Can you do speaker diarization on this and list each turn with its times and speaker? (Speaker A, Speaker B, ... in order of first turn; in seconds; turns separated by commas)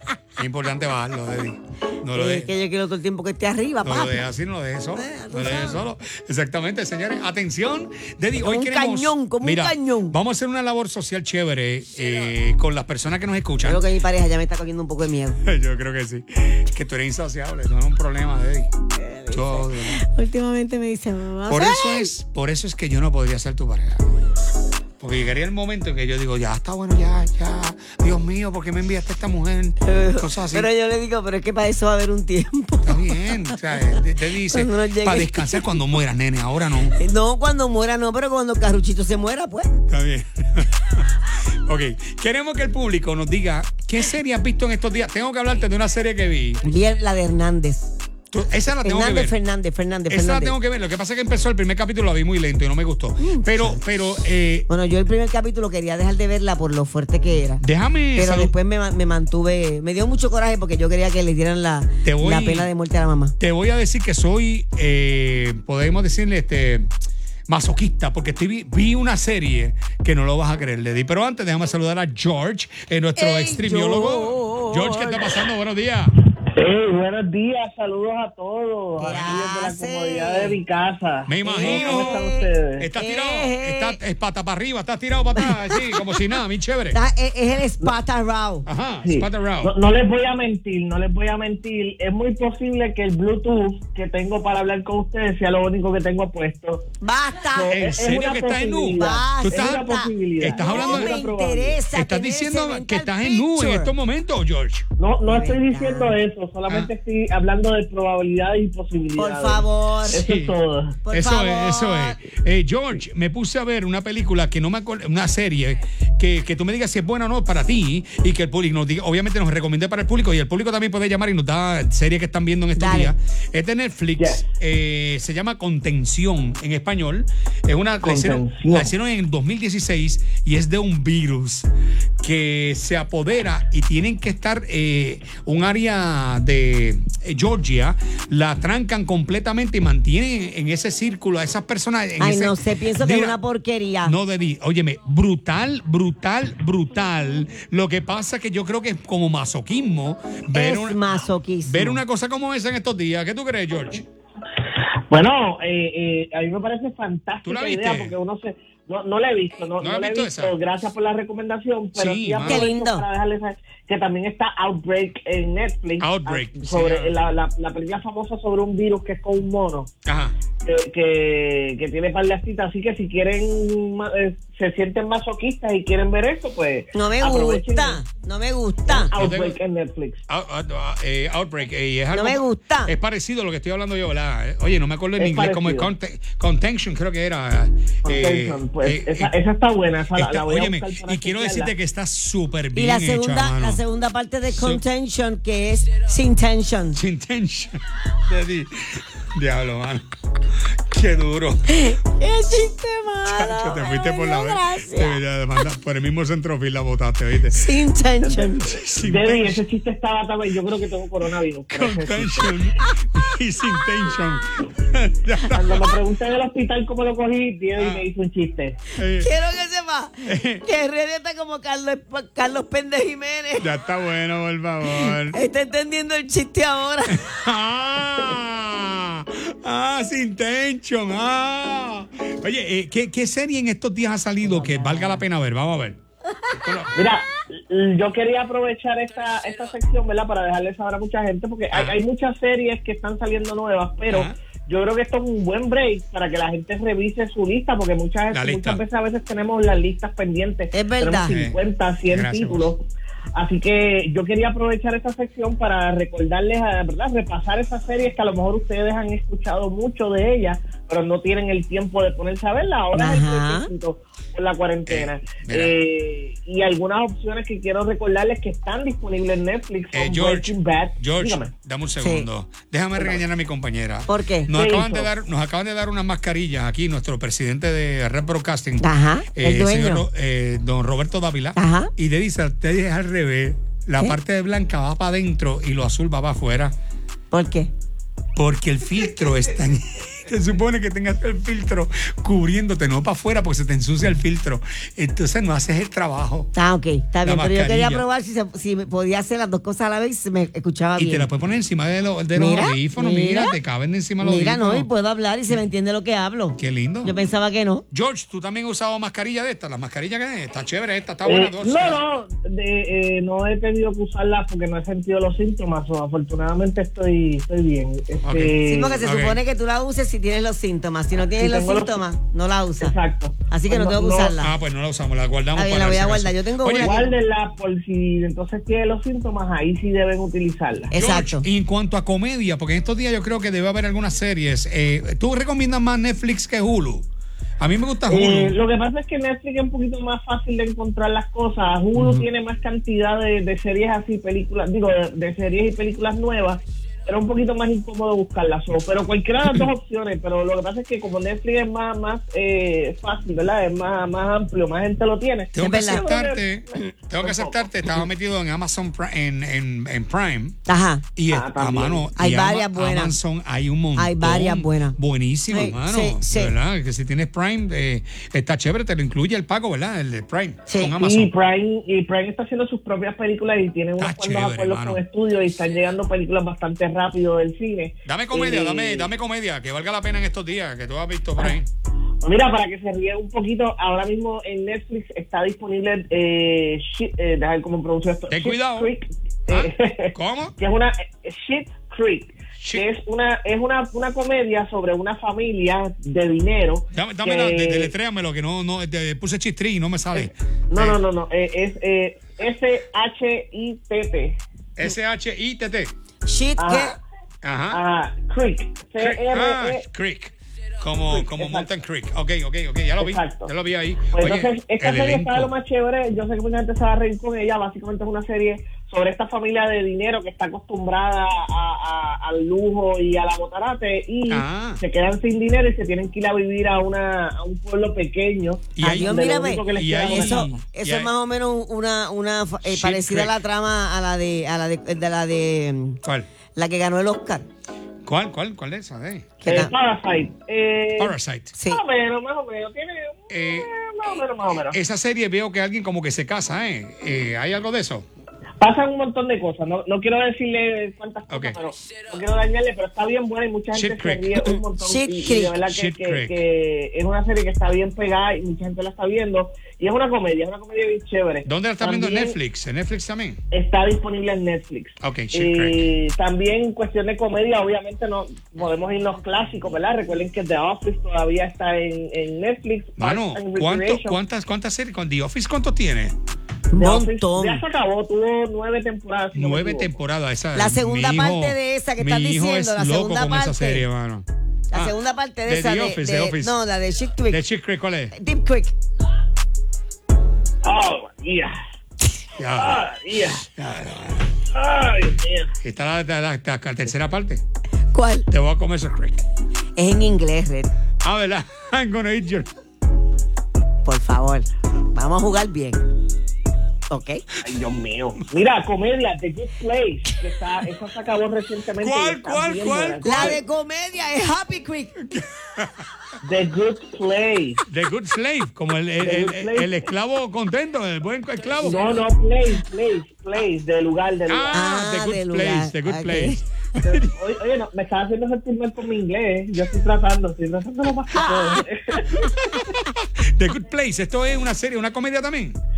Speaker A: 0.4-2.5, Speaker B: 2.1-4.2, Speaker A: 3.8-13.9, Speaker B: 4.9-5.8, Speaker B: 8.4-10.2, Speaker B: 13.6-15.4, Speaker A: 15.4-18.7, Speaker B: 18.9-22.1, Speaker A: 19.3-20.0, Speaker A: 21.5-24.1, Speaker A: 25.0-30.7, Speaker B: 29.9-35.8, Speaker A: 32.8-37.0, Speaker B: 36.9-39.9, Speaker A: 39.9-46.6, Speaker B: 46.6-47.9, Speaker A: 48.3-49.4, Speaker B: 48.8-50.5, Speaker A: 50.1-54.7, Speaker B: 53.2-53.8, Speaker B: 54.7-57.6, Speaker A: 57.6-58.5, Speaker B: 58.1-63.3, Speaker A: 62.0-62.7, Speaker A: 63.4-66.9, Speaker A: 67.5-76.1, Speaker B: 73.2-75.5, Speaker C: 76.5-82.9, Speaker B: 79.0-80.6, Speaker A: 81.3-82.2, Speaker B: 81.5-84.0, Speaker A: 82.8-87.0, Speaker B: 85.4-86.2, Speaker B: 86.9-88.7, Speaker A: 88.7-89.7, Speaker C: 89.0-96.8, Speaker B: 97.0-97.7, Speaker C: 97.5-101.8, Speaker A: 97.7-99.9, Speaker B: 99.0-103.9, Speaker A: 100.4-101.2, Speaker A: 101.9-104.8, Speaker C: 105.0-111.0, Speaker B: 105.3-106.2, Speaker B: 109.2-110.2, Speaker A: 110.1-110.5, Speaker B: 111.0-112.2, Speaker A: 111.1-131.7, Speaker B: 122.8-123.1, Speaker C: 124.2-124.4, Speaker C: 128.0-128.9, Speaker A: 132.2-143.4, Speaker B: 142.2-144.1, Speaker A: 144.0-151.0, Speaker B: 150.5-152.0, Speaker A: 151.6-154.0, Speaker C: 154.7-169.9, Speaker A: 157.4-158.2, Speaker A: 159.8-160.5, Speaker A: 161.9-162.7, Speaker B: 162.4-163.0, Speaker A: 166.0-167.1, Speaker A: 170.0-170.3, Speaker C: 170.6-178.0, Speaker B: 176.9-179.1, Speaker C: 178.9-180.2, Speaker A: 179.1-179.6, Speaker A: 180.3-189.3, Speaker B: 182.1-182.9, Speaker C: 185.2-185.9, Speaker C: 188.0-191.7, Speaker A: 190.1-193.8, Speaker B: 192.7-197.0, Speaker A: 194.5-194.8, Speaker A: 196.9-200.0, Speaker A: 200.9-201.9, Speaker B: 201.7-205.2, Speaker A: 203.3-207.8, Speaker B: 207.5-208.8, Speaker C: 208.2-212.5, Speaker A: 208.6-209.6, Speaker A: 211.7-215.9, Speaker C: 215.5-218.8, Speaker A: 217.8-218.0, Speaker A: 218.9-219.3, Speaker B: 219.2-223.8, Speaker A: 220.2-220.6, Speaker A: 223.6-225.4, Speaker B: 224.8-227.2, Speaker A: 227.1-236.0, Speaker A: 236.5-236.9, Speaker C: 236.9-271.5, Speaker A: 248.3-248.8, Speaker B: 250.7-251.3, Speaker A: 251.2-251.6, Speaker A: 252.1-252.7, Speaker B: 262.9-263.7, Speaker A: 264.9-265.7, Speaker A: 269.9-286.7, Speaker B: 272.0-272.3, Speaker C: 272.9-273.2, Speaker B: 274.1-274.5, Speaker C: 274.5-275.1, Speaker B: 278.8-280.1, Speaker B: 281.6-281.9, Speaker B: 287.3-287.7, Speaker A: 288.4-296.5, Speaker B: 296.5-301.3, Speaker A: 297.2-298.0, Speaker A: 301.0-304.9, Speaker B: 302.3-303.6, Speaker B: 304.2-307.8, Speaker A: 306.6-307.1, Speaker A: 307.9-312.0, Speaker C: 311.2-319.0, Speaker A: 318.2-319.4, Speaker B: 318.6-322.9, Speaker C: 321.4-322.1, Speaker C: 322.8-324.3, Speaker B: 323.5-324.5, Speaker A: 324.4-327.0, Speaker B: 325.5-327.1, Speaker C: 326.8-330.9, Speaker B: 330.9-331.5, Speaker A: 330.9-337.0, Speaker A: 337.6-338.6, Speaker C: 338.1-357.7, Speaker A: 342.0-342.2, Speaker A: 355.5-360.6, Speaker B: 355.6-356.0, Speaker B: 360.7-361.1, Speaker A: 361.1-371.3, Speaker C: 361.3-362.1, Speaker B: 362.1-363.2, Speaker B: 363.9-364.9, Speaker B: 365.5-366.5, Speaker B: 370.7-370.9, Speaker C: 371.0-379.1, Speaker A: 374.0-375.0, Speaker A: 378.0-381.7, Speaker C: 382.2-397.9, Speaker A: 388.3-388.9, Speaker A: 389.5-390.5, Speaker A: 392.6-392.8, Speaker A: 396.9-401.0, Speaker C: 400.1-404.4, Speaker A: 404.8-405.9, Speaker B: 406.2-406.9, Speaker C: 406.6-407.0, Speaker A: 407.4-407.8, Speaker C: 407.7-409.9, Speaker A: 409.0-415.5, Speaker C: 411.1-411.7, Speaker C: 413.0-413.5, Speaker C: 414.1-430.6, Speaker A: 424.3-424.8, Speaker A: 428.8-429.2, Speaker B: 428.8-436.0, Speaker A: 429.7-431.1, Speaker A: 432.6-433.4, Speaker A: 436.0-436.3, Speaker B: 436.5-437.4, Speaker A: 438.0-439.4, Speaker B: 439.4-439.7, Speaker C: 439.4-441.1, Speaker A: 441.0-441.5, Speaker B: 441.5-441.8, Speaker C: 441.7-444.8, Speaker A: 443.3-443.7, Speaker A: 444.7-448.0, Speaker C: 448.6-462.4, Speaker A: 451.3-451.6, Speaker A: 453.7-454.6, Speaker B: 454.8-455.6, Speaker A: 455.6-456.4, Speaker A: 461.4-463.4, Speaker C: 463.5-474.2, Speaker A: 465.0-465.9, Speaker A: 473.0-476.1, Speaker B: 476.7-477.6, Speaker C: 476.7-479.9, Speaker A: 479.3-484.9, Speaker B: 480.5-483.9, Speaker B: 484.7-487.4, Speaker A: 485.4-486.6, Speaker A: 487.3-488.1, Speaker B: 488.1-488.7, Speaker C: 490.6-491.6, Speaker A: 492.4-492.8, Speaker C: 492.5-493.4, Speaker A: 493.4-494.4, Speaker C: 494.5-495.5, Speaker A: 495.6-497.4, Speaker B: 497.9-498.3, Speaker A: 498.3-499.2, Speaker B: 499.8-500.7, Speaker A: 501.0-502.5, Speaker B: 503.8-505.8, Speaker B: 506.9-507.2, Speaker C: 507.4-513.4, Speaker A: 511.8-513.4, Speaker B: 513.0-514.9, Speaker A: 515.0-515.8, Speaker C: 516.2-517.6, Speaker A: 517.7-521.8, Speaker C: 519.0-519.7, Speaker C: 521.6-524.6, Speaker A: 524.3-527.1, Speaker B: 524.5-526.4, Speaker C: 526.8-532.2, Speaker B: 531.1-531.6, Speaker A: 532.1-535.6